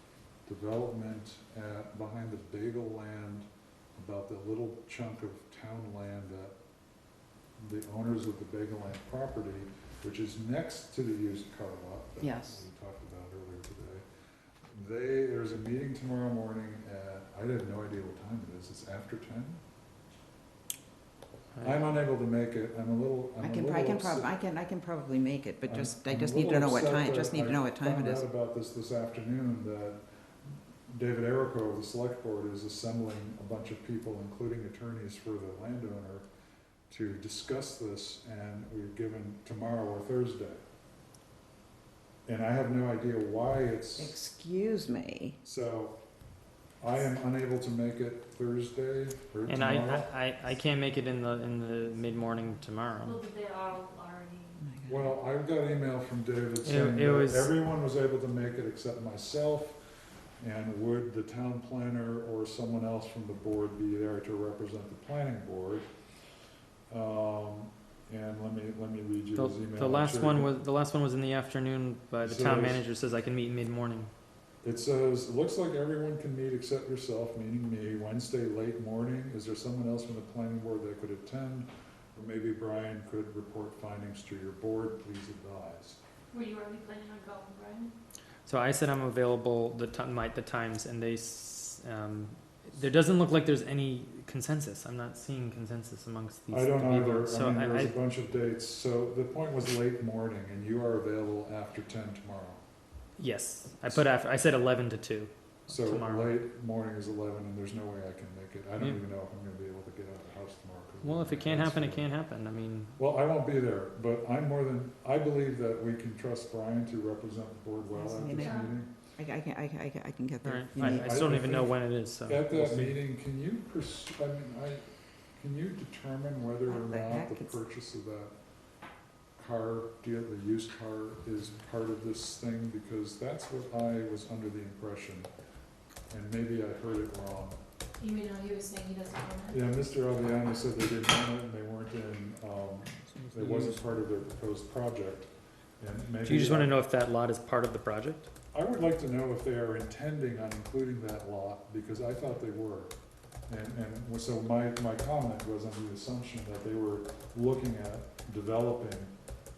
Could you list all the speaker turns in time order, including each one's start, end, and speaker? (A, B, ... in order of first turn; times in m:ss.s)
0:00.4-0:06.6 A
0:07.6-0:14.0 A
0:12.2-0:12.6 B
0:14.7-0:19.6 A
0:21.6-0:24.3 A
0:23.4-0:28.2 B
0:25.7-0:30.0 A
0:30.9-0:36.2 A
0:36.9-0:40.6 A
0:42.2-0:44.2 A
0:44.0-0:45.4 B
0:45.4-0:46.0 A
0:46.8-0:50.1 A
0:49.5-0:53.2 C
0:53.0-0:54.6 D
0:54.6-0:55.0 B
0:54.9-0:59.8 A
0:56.6-0:57.5 C
1:00.4-1:05.8 A
1:06.9-1:10.5 A
1:09.4-1:14.1 C
1:12.2-1:12.8 A
1:14.6-1:26.0 A
1:26.3-1:27.9 D
1:28.4-1:38.0 C
1:36.5-1:42.6 A
1:43.2-1:46.4 C
1:45.7-1:52.1 A
1:51.0-1:53.0 C
1:53.0-1:58.9 A
1:57.9-2:01.2 B
1:58.3-1:58.7 D
2:00.4-2:03.0 C
2:00.8-2:04.8 A
2:05.4-2:08.3 A
2:06.7-2:07.5 B
2:09.4-2:15.3 A
2:16.1-2:17.6 A
2:18.0-2:19.6 D
2:19.5-2:26.8 A
2:23.2-2:23.8 C
2:26.2-2:28.3 C
2:28.5-2:32.9 A
2:33.5-2:39.1 A